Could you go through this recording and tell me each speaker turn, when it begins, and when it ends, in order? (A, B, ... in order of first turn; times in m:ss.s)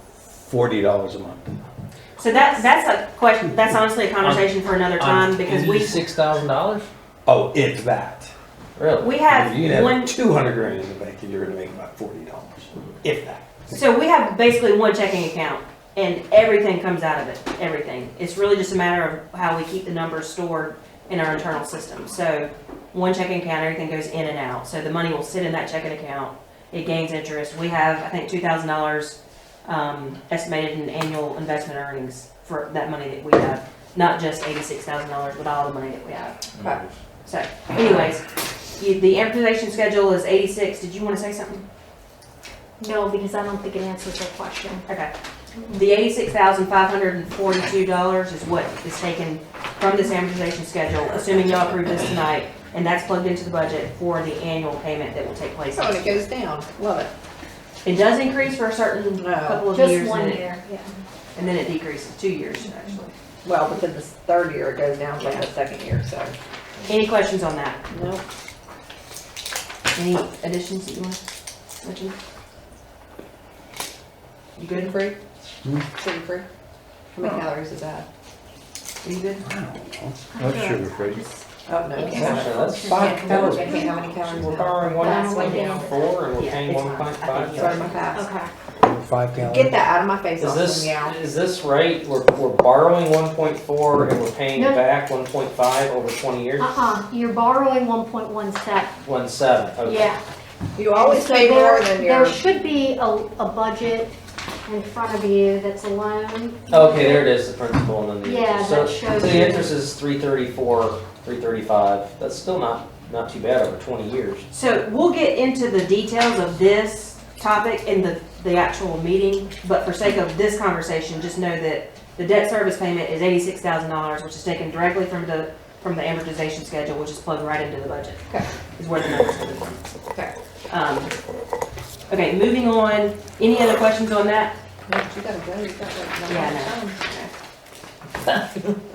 0:00.4-0:01.6 A
0:02.2-0:06.0 B
0:04.2-0:04.5 C
0:05.0-0:06.9 C
0:07.2-0:08.3 A
0:08.8-0:09.1 C
0:09.0-0:10.2 B
0:09.3-0:13.5 A
0:13.7-0:36.4 B
0:37.2-0:38.2 B
0:38.8-0:41.6 B
0:42.8-0:44.9 D
0:45.7-0:56.1 B
0:55.7-0:57.1 E
0:57.8-1:00.5 B
0:59.2-0:59.6 E
0:59.7-1:01.0 D
1:01.4-1:03.1 B
1:03.4-1:06.3 E
1:05.2-1:05.5 B
1:06.9-1:07.8 B
1:07.9-1:08.2 E
1:09.9-1:11.2 B
1:11.8-1:12.1 B
1:14.6-1:15.2 E
1:15.9-1:16.5 E
1:17.1-1:18.0 E
1:19.0-1:19.4 B
1:19.4-1:21.2 A
1:20.3-1:24.2 D
1:21.7-1:25.7 E
1:22.0-1:27.7 C
1:25.0-1:26.2 D
1:25.3-1:25.8 B
1:26.3-1:28.0 B
1:27.6-1:28.2 E
1:28.1-1:28.5 D
1:28.8-1:29.7 A
1:29.4-1:31.2 E
1:30.4-1:36.7 C
1:34.5-1:34.8 D
1:36.6-1:39.0 D
1:39.0-1:40.1 C
1:39.8-1:40.2 D
1:40.8-1:42.4 E
1:41.0-1:44.1 D
1:44.6-1:47.3 D
1:46.7-1:54.4 C
1:48.2-1:49.8 D
1:54.5-2:08.2 B
2:08.7-2:09.8 B
2:10.7-2:11.1 B
2:12.1-2:14.6 B
2:14.9-2:17.0 E
2:16.2-2:17.3 B